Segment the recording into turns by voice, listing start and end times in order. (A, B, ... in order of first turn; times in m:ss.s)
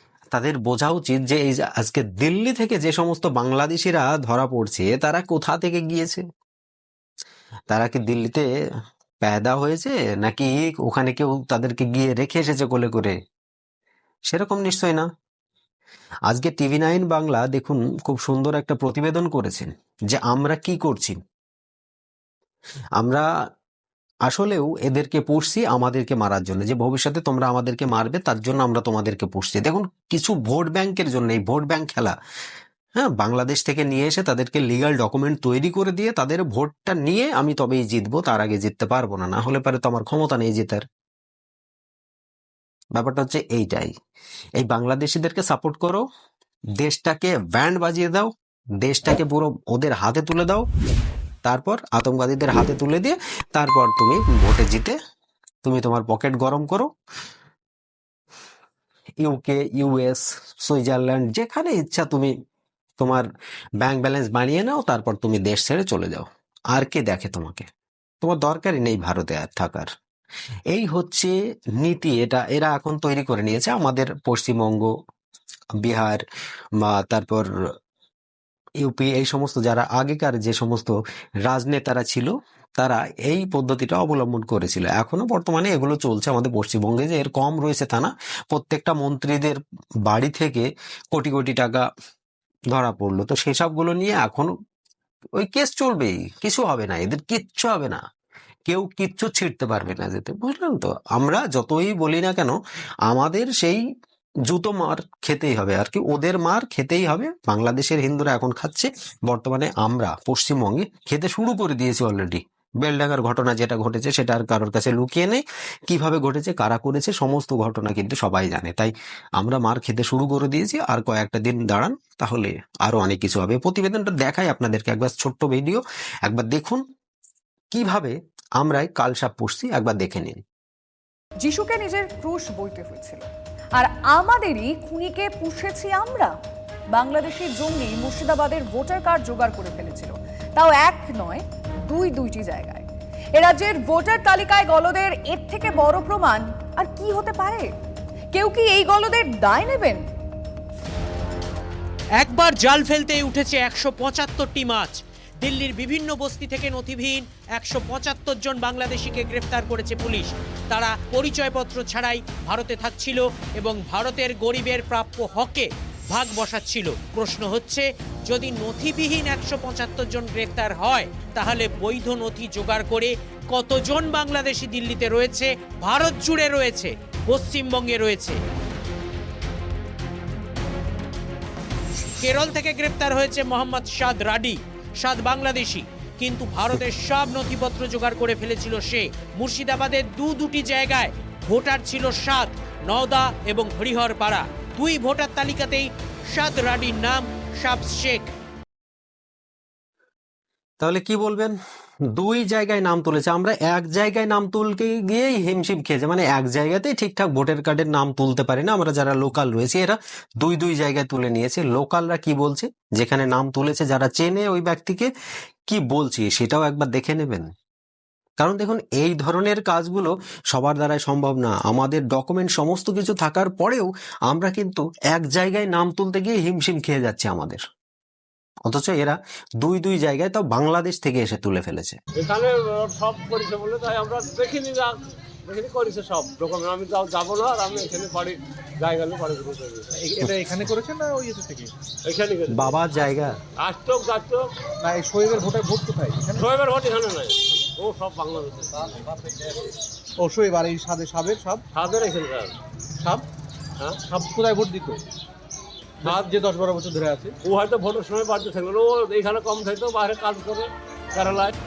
0:00.3-0:06.2 A
0:07.7-0:08.4 A
0:09.2-0:13.1 A
0:14.3-0:15.1 A
0:16.3-0:21.2 A
0:23.0-0:23.2 A
0:24.3-0:32.1 A
0:33.0-0:40.8 A
0:42.9-0:43.9 A
0:44.6-0:46.0 A
0:46.8-0:50.7 A
0:51.4-0:55.0 A
0:55.6-0:56.9 A
0:59.2-1:02.3 A
1:03.0-1:03.2 A
1:03.8-1:07.6 A
1:08.2-1:09.9 A
1:10.7-1:14.9 A
1:15.8-1:16.2 A
1:16.8-1:17.5 A
1:18.8-1:31.9 A
1:32.7-1:34.5 A
1:35.4-1:38.0 A
1:38.7-1:43.8 A
1:44.5-2:06.8 A
2:07.7-2:10.4 A
2:11.4-2:16.3 B
2:16.9-2:27.7 B
2:28.3-2:30.1 B
2:32.2-2:58.4 C
3:02.2-3:18.3 C
3:20.8-3:21.6 A
3:22.2-3:35.1 A
3:35.7-3:37.5 A
3:38.4-3:47.6 A
3:48.6-3:52.0 A
3:52.1-4:00.2 D
4:00.0-4:01.7 E
4:00.2-4:00.7 A
4:02.0-4:02.8 D
4:02.5-4:03.4 A
4:03.6-4:04.4 D
4:04.8-4:06.5 E
4:06.4-4:08.9 D
4:10.2-4:11.6 E
4:11.7-4:12.5 D
4:13.8-4:14.1 D
4:14.1-4:15.0 E
4:16.0-4:17.4 E
4:17.4-4:21.6 D